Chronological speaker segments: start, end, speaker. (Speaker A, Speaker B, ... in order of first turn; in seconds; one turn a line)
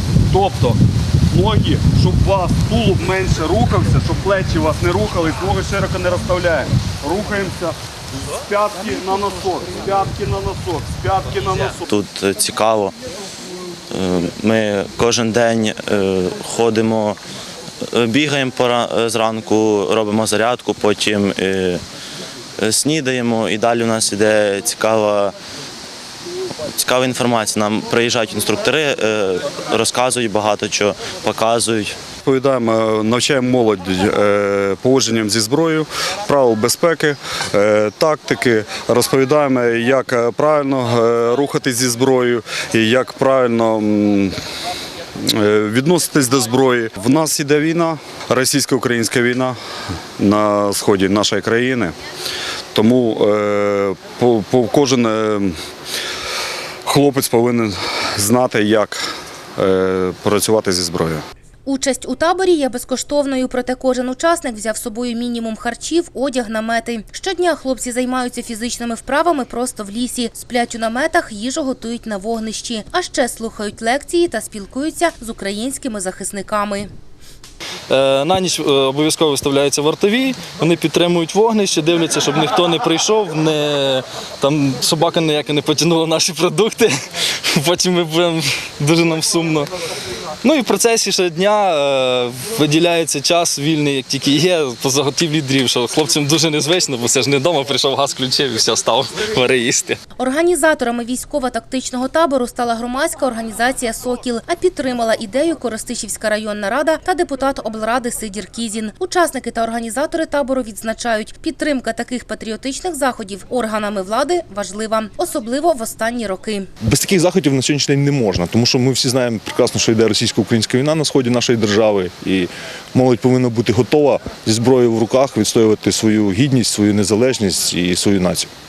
Speaker A: 0.3-0.8
Speaker A: 1.3-7.8
Speaker A: 8.4-11.9
Speaker B: 11.9-12.9
Speaker B: 13.9-17.2
Speaker B: 17.9-21.8
Speaker B: 22.6-25.4
Speaker B: 26.7-31.9
Speaker A: 32.2-44.4
Speaker A: 45.2-49.6
Speaker A: 50.2-52.0
Speaker A: 52.7-55.5
Speaker A: 56.9-59.0
Speaker A: 59.6-61.2
Speaker C: 61.7-76.9
Speaker D: 77.9-89.7
Speaker D: 90.4-100.0
Speaker C: 100.2-116.7
Speaker E: 116.8-128.5